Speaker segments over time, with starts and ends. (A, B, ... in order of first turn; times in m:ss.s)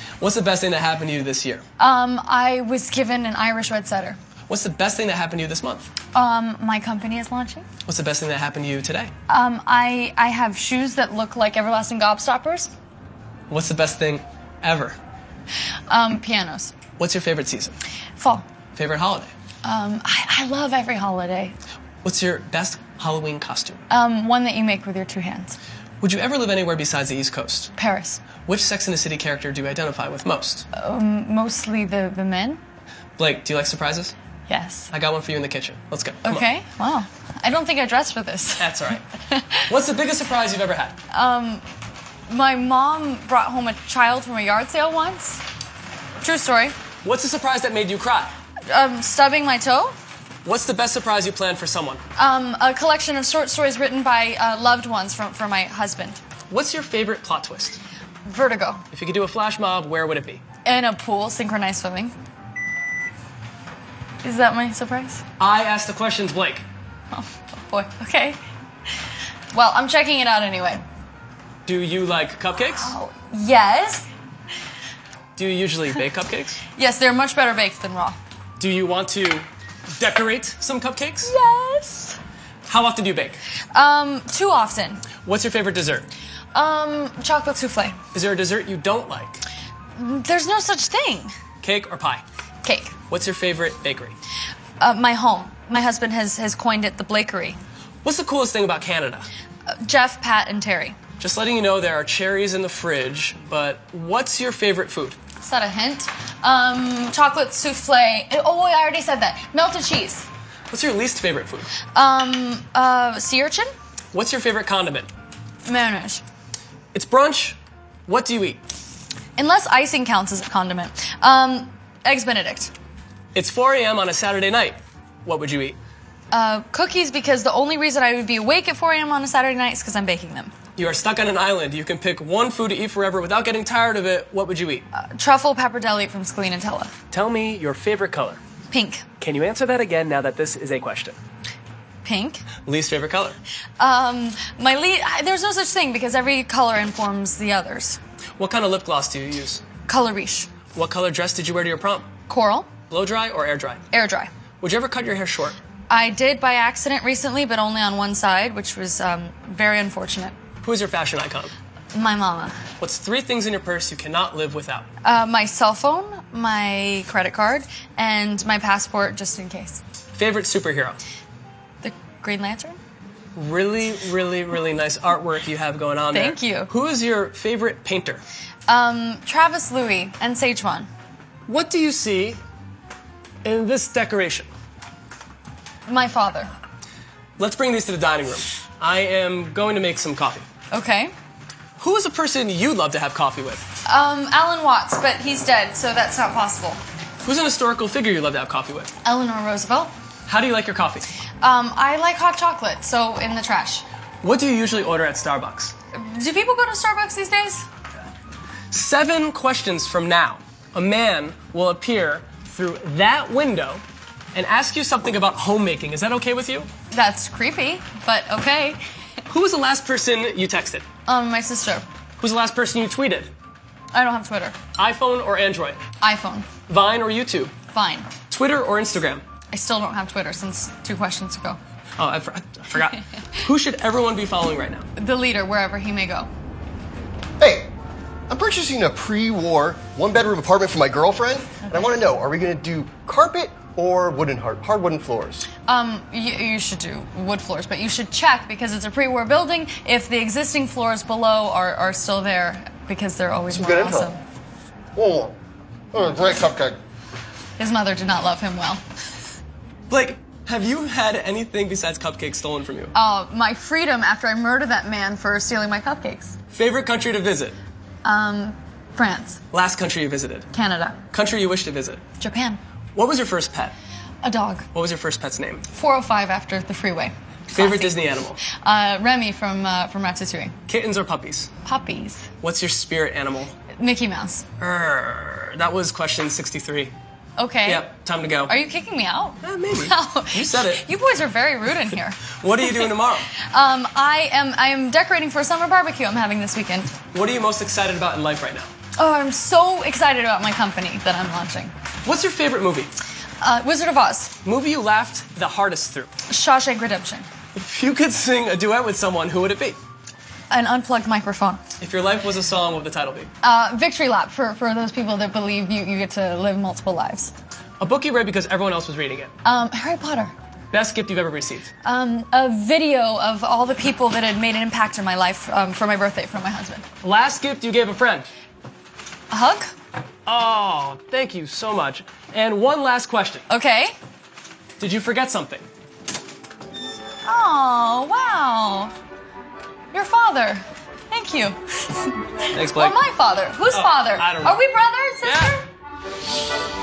0:00.2-0:01.6 A
0:01.8-0:04.2 B
0:04.5-0:05.9 A
0:06.1-0:07.6 B
0:07.8-0:09.1 A
0:09.3-0:12.7 B
0:13.5-0:15.0 A
0:15.9-0:16.7 B
0:17.0-0:17.8 A
0:18.2-0:18.4 B
0:18.8-0:19.3 A
0:19.6-0:21.6 B
0:22.0-0:23.8 A
0:23.9-0:25.6 B
0:26.0-0:27.7 A
0:27.8-0:28.2 B
0:28.4-0:30.7 A
0:30.7-0:32.6 B
0:33.2-0:34.1 A
0:34.5-0:34.9 B
0:34.9-0:36.4 A
0:36.2-0:39.6 B
0:38.6-0:39.0 A
0:39.7-0:41.0 A
0:41.1-0:41.6 B
0:42.3-0:45.4 B
0:46.2-0:46.8 B
0:47.0-0:48.3 A
0:48.7-0:49.9 B
0:50.4-0:52.0 A
0:52.2-0:56.2 B
0:56.5-0:57.8 A
0:58.2-0:58.8 B
0:58.9-1:00.4 A
1:00.6-1:02.1 B
1:04.2-1:05.2 B
1:05.4-1:06.6 A
1:07.1-1:08.4 B
1:09.5-1:10.8 B
1:11.6-1:13.0 A
1:12.6-1:14.1 B
1:15.4-1:16.6 A
1:16.7-1:18.2 B
1:18.6-1:21.3 A
1:21.2-1:22.2 B
1:22.7-1:23.4 A
1:23.7-1:25.1 B
1:25.2-1:26.1 A
1:26.5-1:28.0 B
1:28.1-1:29.4 A
1:30.0-1:31.3 B
1:31.6-1:32.2 A
1:32.6-1:32.9 B
1:33.1-1:34.1 A
1:34.8-1:37.6 B
1:38.0-1:39.3 A
1:39.7-1:41.0 B
1:41.2-1:45.2 A
1:45.4-1:50.3 B
1:50.7-1:51.7 A
1:51.9-1:53.7 B
1:54.1-1:55.1 A
1:55.6-1:56.2 B
1:56.9-1:58.6 A
1:59.4-2:02.7 B
2:03.3-2:05.8 A
2:06.3-2:10.5 B
2:10.8-2:14.8 A
2:14.9-2:16.9 B
2:17.1-2:18.4 A
2:18.7-2:19.0 B
2:19.2-2:21.2 A
2:22.0-2:22.4 B
2:22.6-2:23.4 A
2:23.8-2:28.0 B
2:28.4-2:29.6 A
2:29.8-2:30.5 B
2:30.7-2:32.1 A
2:32.3-2:32.7 B
2:32.9-2:33.8 A
2:33.9-2:34.3 B
2:34.6-2:35.6 A
2:35.9-2:40.4 B
2:40.6-2:41.5 A
2:41.9-2:42.6 B
2:42.8-2:44.9 A
2:45.0-2:49.8 B
2:50.1-2:51.0 A
2:51.8-2:52.8 B
2:53.3-2:58.2 A
2:56.1-2:56.7 B
2:58.7-3:00.9 B
3:01.5-3:02.4 A
3:03.4-3:04.5 A
3:05.9-3:06.5 B
3:07.4-3:10.4 A
3:10.7-3:11.1 B
3:11.8-3:13.6 A
3:13.8-3:16.8 B
3:17.2-3:18.9 A
3:19.0-3:19.9 B
3:20.3-3:21.1 A
3:21.4-3:23.8 B
3:24.2-3:25.7 A
3:25.9-3:27.6 B
3:28.7-3:33.8 A
3:34.3-3:36.7 A
3:36.9-3:38.8 B
3:39.3-3:40.8 A
3:41.1-3:41.8 B
3:42.2-3:43.3 A
3:43.9-3:44.6 B
3:44.8-3:45.8 A
3:46.0-3:46.5 B
3:46.7-3:47.5 A
3:47.7-3:48.1 B
3:48.3-3:49.2 A
3:49.5-3:51.6 B
3:52.0-3:54.8 A
3:55.0-3:56.3 B
3:57.4-3:57.7 C
3:58.3-4:05.5 C
4:05.6-4:14.2 B
4:13.5-4:14.1 C
4:14.9-4:15.4 C
4:15.9-4:16.8 C
4:17.6-4:18.8 B
4:19.9-4:22.9 A
4:22.9-4:26.4 B
4:26.5-4:27.6 A
4:28.0-4:29.4 B
4:29.5-4:30.5 A
4:30.5-4:31.0 B
4:31.1-4:32.0 A
4:32.2-4:32.6 B
4:32.9-4:33.7 A
4:34.2-4:34.7 B
4:34.7-4:35.6 A
4:35.7-4:40.6 B
4:37.5-4:38.4 A
4:40.7-4:41.5 A
4:41.6-4:42.3 B
4:42.4-4:43.6 A
4:43.7-4:44.4 B
4:44.6-4:46.9 A
4:47.4-4:47.9 B
4:47.6-4:48.5 A
4:48.4-4:52.4 B
4:49.4-4:50.8 A
4:52.4-4:53.3 A
4:53.3-4:56.9 B
4:57.1-4:58.7 A
4:59.0-5:01.7 B
5:02.0-5:02.9 A
5:03.4-5:04.4 B
5:04.4-5:06.1 A
5:06.3-5:07.3 B
5:07.5-5:09.8 A
5:10.5-5:11.6 B
5:11.8-5:13.3 A
5:13.4-5:17.3 B
5:17.8-5:19.3 A
5:19.4-5:20.3 B
5:20.7-5:21.7 A
5:21.8-5:26.8 B
5:27.0-5:28.3 A
5:29.3-5:29.7 B
5:30.2-5:33.4 A
5:33.5-5:33.9 B
5:34.8-5:35.7 A
5:37.2-5:38.9 B
5:39.9-5:45.6 B
5:42.5-5:43.0 A
5:43.7-5:44.6 A
5:45.2-5:45.5 A